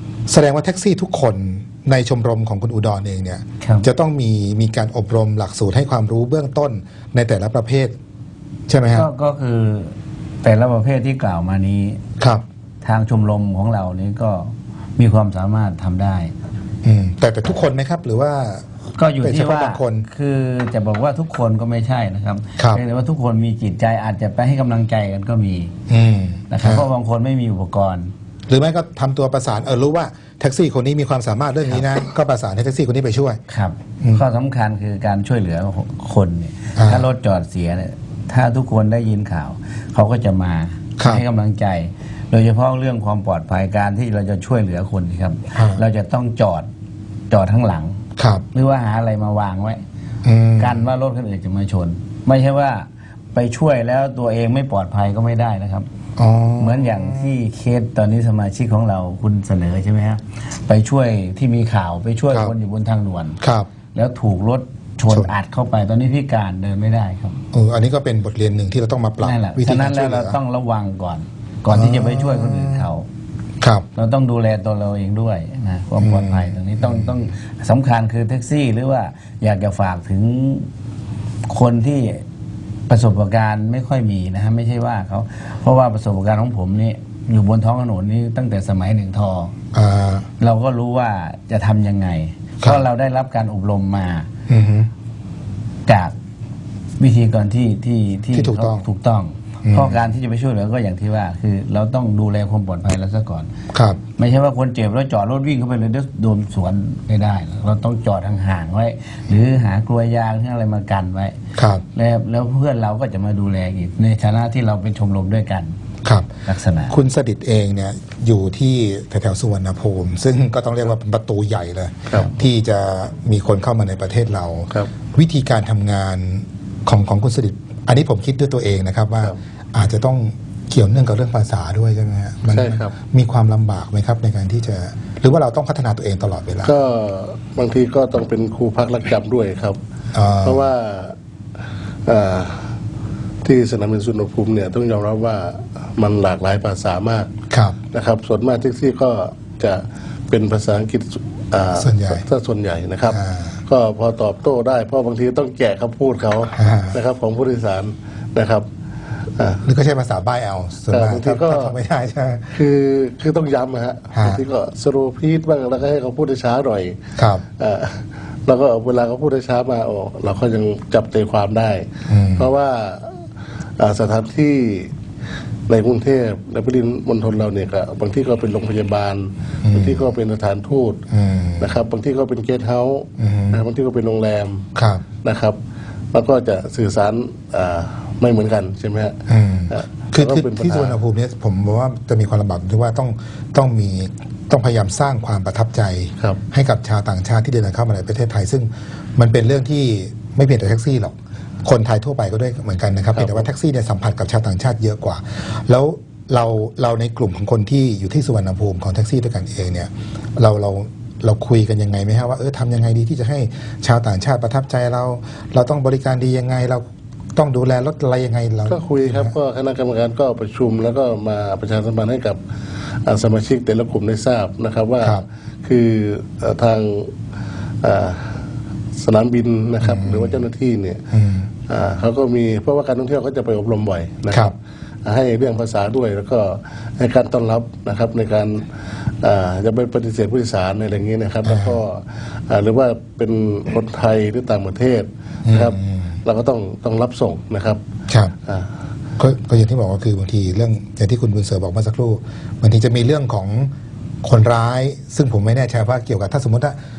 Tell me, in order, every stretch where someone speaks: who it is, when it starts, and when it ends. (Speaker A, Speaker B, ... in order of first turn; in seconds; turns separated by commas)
Speaker A: 0.3-8.0, Speaker B: 3.6-3.9, Speaker A: 8.7-9.1, Speaker B: 8.9-12.0, Speaker B: 12.8-16.3, Speaker A: 16.8-18.7, Speaker B: 18.9-25.7, Speaker A: 19.2-20.1, Speaker A: 22.6-22.8, Speaker A: 25.9-26.9, Speaker B: 26.5-28.1, Speaker A: 28.5-33.4, Speaker B: 33.5-46.7, Speaker A: 36.8-37.1, Speaker A: 41.0-41.2, Speaker A: 45.5-45.8, Speaker B: 47.3-48.0, Speaker A: 48.1-48.4, Speaker B: 48.5-49.8, Speaker A: 50.2-50.9, Speaker B: 50.6-55.9, Speaker A: 56.2-57.3, Speaker B: 56.6-63.4, Speaker A: 63.4-63.7, Speaker B: 63.9-67.4, Speaker A: 67.5-70.4, Speaker B: 69.2-73.0, Speaker A: 71.7-72.9, Speaker A: 73.6-73.8, Speaker B: 73.9-80.7, Speaker A: 76.0-77.2, Speaker B: 81.5-82.2, Speaker B: 82.9-89.5, Speaker A: 89.7-90.3, Speaker B: 90.4-94.3, Speaker A: 92.6-92.8, Speaker A: 94.5-94.9, Speaker B: 95.8-96.1, Speaker B: 97.0-103.5, Speaker A: 98.3-98.9, Speaker A: 99.6-100.0, Speaker A: 103.7-104.0, Speaker B: 104.2-111.4, Speaker A: 111.5-111.8, Speaker B: 111.9-115.7, Speaker A: 116.0-116.3, Speaker B: 116.4-117.0, Speaker A: 116.9-136.7, Speaker C: 132.5-132.9, Speaker C: 136.6-139.8, Speaker A: 140.1-140.7, Speaker C: 140.4-141.2, Speaker C: 142.1-142.7, Speaker C: 143.4-147.3, Speaker A: 147.5-147.8, Speaker C: 147.9-158.7, Speaker A: 151.7-152.2, Speaker A: 153.1-153.6, Speaker A: 156.5-156.9, Speaker C: 159.4-159.6, Speaker A: 159.6-162.6, Speaker C: 160.9-161.7, Speaker C: 162.5-167.0, Speaker A: 164.1-164.4, Speaker A: 167.1-167.4, Speaker C: 167.6-173.2, Speaker A: 172.1-172.5, Speaker C: 173.8-174.9, Speaker C: 175.7-181.0, Speaker A: 179.6-180.0, Speaker A: 181.1-181.8, Speaker C: 181.6-184.7, Speaker A: 183.2-183.6, Speaker A: 184.7-185.0, Speaker C: 185.2-185.6, Speaker C: 186.1-191.0, Speaker A: 189.3-219.3, Speaker C: 203.1-203.4, Speaker C: 218.7-222.4, Speaker C: 223.0-227.1, Speaker C: 227.8-228.4, Speaker C: 229.0-231.0, Speaker A: 229.8-230.4, Speaker A: 231.1-231.5, Speaker C: 231.7-234.5, Speaker C: 235.0-238.7, Speaker C: 239.2-247.8, Speaker A: 241.4-241.8, Speaker A: 245.4-246.1, Speaker A: 248.1-248.3, Speaker A: 249.2-253.7, Speaker A: 254.2-256.8